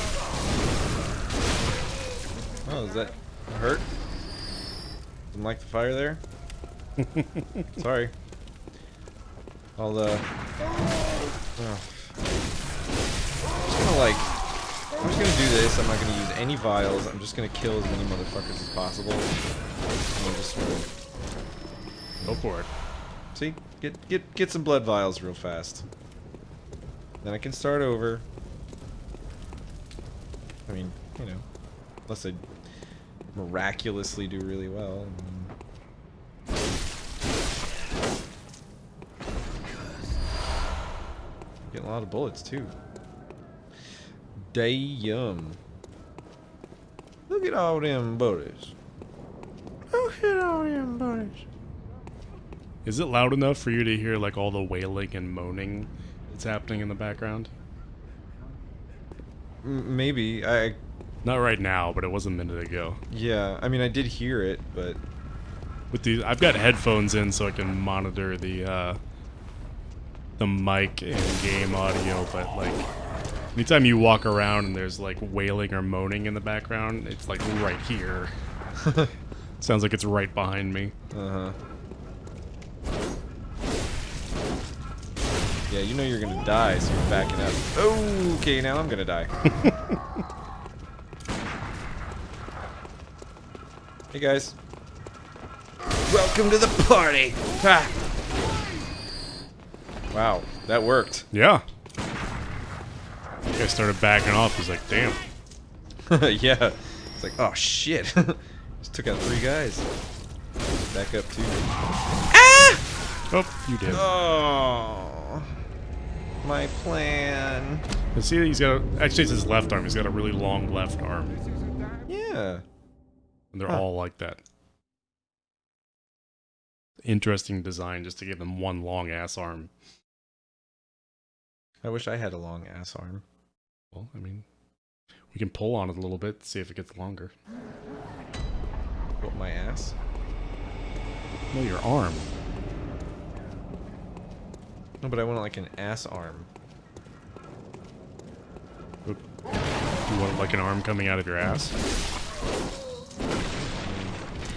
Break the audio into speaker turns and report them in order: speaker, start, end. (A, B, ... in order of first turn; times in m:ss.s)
0:02.7-0:03.9 A
0:05.3-0:06.2 A
0:07.2-0:07.4 B
0:07.8-0:08.1 A
0:09.8-0:10.3 A
0:11.6-0:12.2 A
0:13.6-0:14.3 A
0:15.0-0:19.3 A
0:20.1-0:20.9 A
0:22.2-0:22.7 B
0:23.4-0:25.8 A
0:27.2-0:28.3 A
0:30.7-0:31.4 A
0:32.1-0:32.4 A
0:33.3-0:35.6 A
0:41.7-0:42.8 A
0:44.4-0:45.6 A
0:47.3-0:48.8 A
0:49.9-0:51.4 A
0:52.8-0:57.5 B
0:59.6-1:00.8 A
1:01.2-1:03.0 B
1:03.1-1:05.0 A
1:05.9-1:09.0 B
1:10.4-1:12.9 B
1:13.6-1:18.3 B
1:18.8-1:19.1 A
1:19.6-1:20.9 B
1:21.1-1:21.6 A
1:25.7-1:29.3 A
1:34.1-1:34.6 A
1:36.0-1:38.0 A
1:40.1-1:41.3 A
1:41.3-1:41.6 B
1:43.5-1:45.2 B
1:46.0-1:49.9 A
1:50.9-1:51.6 A
1:52.3-1:52.8 A
1:53.3-1:54.1 B
1:53.9-1:55.5 A
1:56.4-1:57.8 A
1:58.2-2:01.4 B
2:02.1-2:02.6 A
2:03.5-2:04.4 B
2:07.0-2:09.7 B
2:11.8-2:13.2 A
2:13.9-2:14.4 B
2:15.3-2:17.3 B
2:19.2-2:20.0 A
2:21.5-2:22.3 B
2:25.0-2:26.5 A
2:30.1-2:31.8 B
2:33.5-2:34.3 A